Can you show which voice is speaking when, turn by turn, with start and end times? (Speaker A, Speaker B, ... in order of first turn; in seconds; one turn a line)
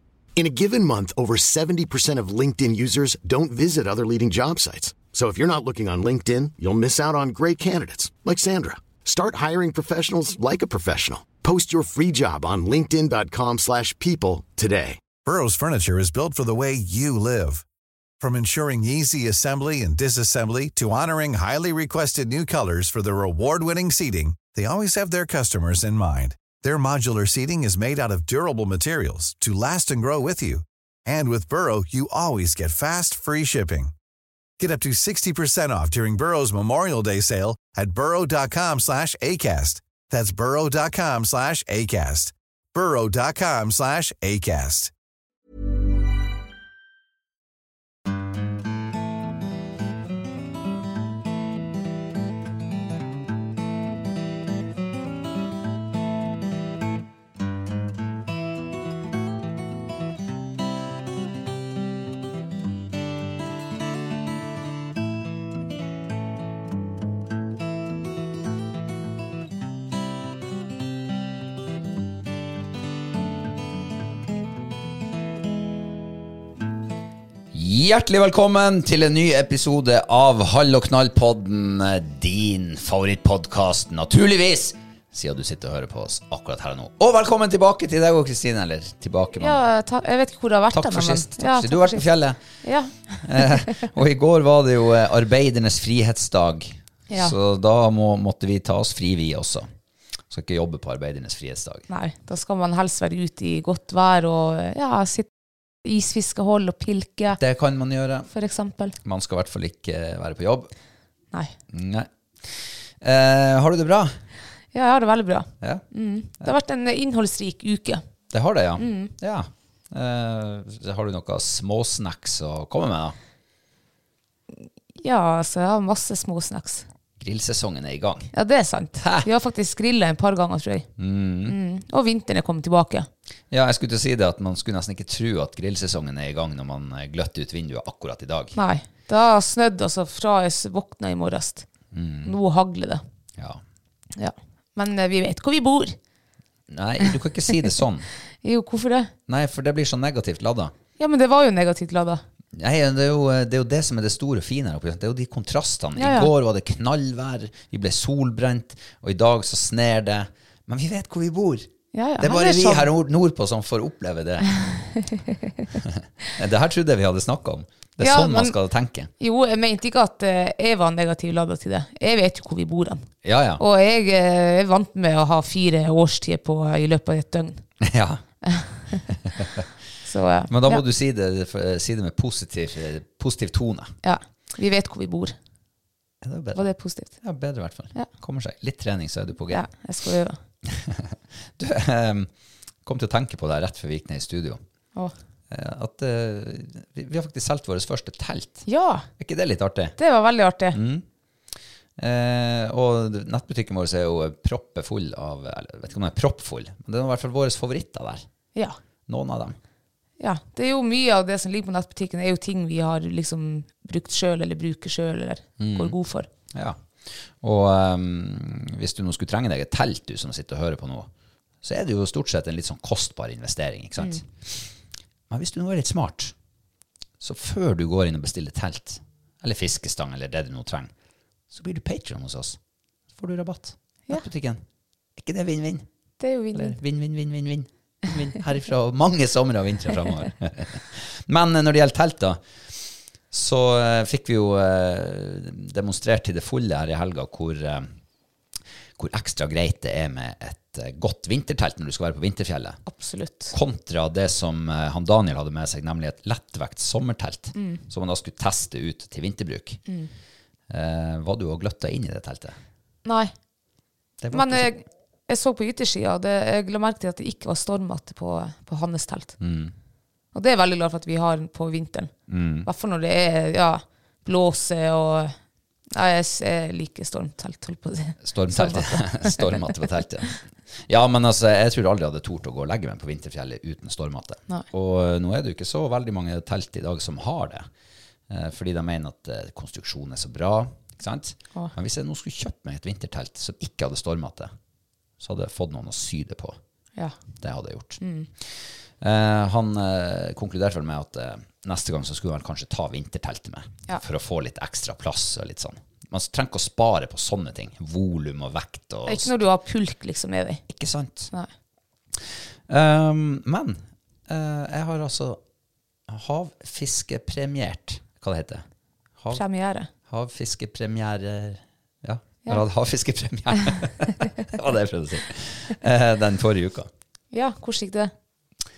Speaker A: 0.3-15.0
Speaker B: 15.1-17.6
Speaker B: 18.2-33.9
Speaker B: 34.6-44.9
Speaker C: 77.5-89.6
Speaker D: 89.4-92.1
Speaker C: 90.7-92.4
Speaker D: 92.6-93.7
Speaker C: 93.2-99.7
Speaker D: 97.1-97.3
Speaker C: 100.3-101.8
Speaker D: 101.9-105.3
Speaker D: 105.8-107.4
Speaker C: 107.4-108.3
Speaker D: 108.3-109.0
Speaker C: 109.0-110.7
Speaker C: 111.7-114.2
Speaker D: 114.7-118.0
Speaker C: 118.3-123.2
Speaker D: 118.8-119.1
Speaker D: 125.0-126.8
Speaker C: 127.2-128.3
Speaker D: 128.3-130.9
Speaker C: 129.0-129.3
Speaker C: 131.0-131.6
Speaker D: 131.4-133.1
Speaker C: 133.5-138.6
Speaker D: 138.5-141.7
Speaker C: 141.9-142.3
Speaker D: 142.2-143.0
Speaker C: 143.4-143.6
Speaker D: 144.2-145.9
Speaker C: 146.7-148.1
Speaker D: 148.4-149.1
Speaker C: 149.3-150.7
Speaker D: 151.0-152.2
Speaker C: 152.5-164.7
Speaker D: 156.0-156.3
Speaker D: 161.9-162.9
Speaker D: 164.6-165.3
Speaker C: 165.7-169.1
Speaker D: 168.0-168.5
Speaker D: 169.2-173.1
Speaker C: 173.2-173.6
Speaker D: 173.6-177.6
Speaker C: 177.8-178.2
Speaker D: 178.4-179.0
Speaker C: 179.2-179.6
Speaker D: 180.0-180.8
Speaker C: 180.5-183.9
Speaker D: 184.0-185.3
Speaker C: 186.2-189.7
Speaker D: 186.5-187.1
Speaker D: 189.5-190.4
Speaker C: 190.7-192.3
Speaker C: 192.8-194.6
Speaker C: 195.5-198.7
Speaker D: 198.7-199.1
Speaker C: 199.2-199.9
Speaker D: 200.0-200.8
Speaker C: 200.7-201.1
Speaker C: 202.0-208.2
Speaker C: 209.1-209.6
Speaker D: 210.2-216.3
Speaker C: 215.6-215.9
Speaker C: 216.5-221.1
Speaker C: 221.6-224.7
Speaker C: 225.3-226.3
Speaker C: 227.2-230.9
Speaker C: 231.5-232.6
Speaker C: 233.2-234.6
Speaker C: 235.2-235.8
Speaker D: 236.2-236.8
Speaker C: 236.5-242.4
Speaker C: 243.3-247.9
Speaker C: 249.0-252.8
Speaker D: 252.9-253.5
Speaker C: 253.5-259.8
Speaker D: 257.5-257.8
Speaker C: 260.7-262.6
Speaker D: 263.0-263.3
Speaker C: 264.2-264.7
Speaker D: 264.3-269.4
Speaker C: 269.4-269.7
Speaker D: 270.3-272.1
Speaker C: 272.3-272.7
Speaker D: 272.6-275.3
Speaker D: 275.9-279.6
Speaker C: 278.2-287.7
Speaker C: 288.3-294.5
Speaker C: 295.2-296.6
Speaker C: 297.4-309.4
Speaker D: 298.0-298.3
Speaker D: 309.1-310.6
Speaker C: 310.7-311.3
Speaker C: 312.1-315.4
Speaker C: 316.1-318.6
Speaker C: 319.2-319.4
Speaker D: 319.3-319.9
Speaker C: 320.1-326.9
Speaker D: 327.3-328.1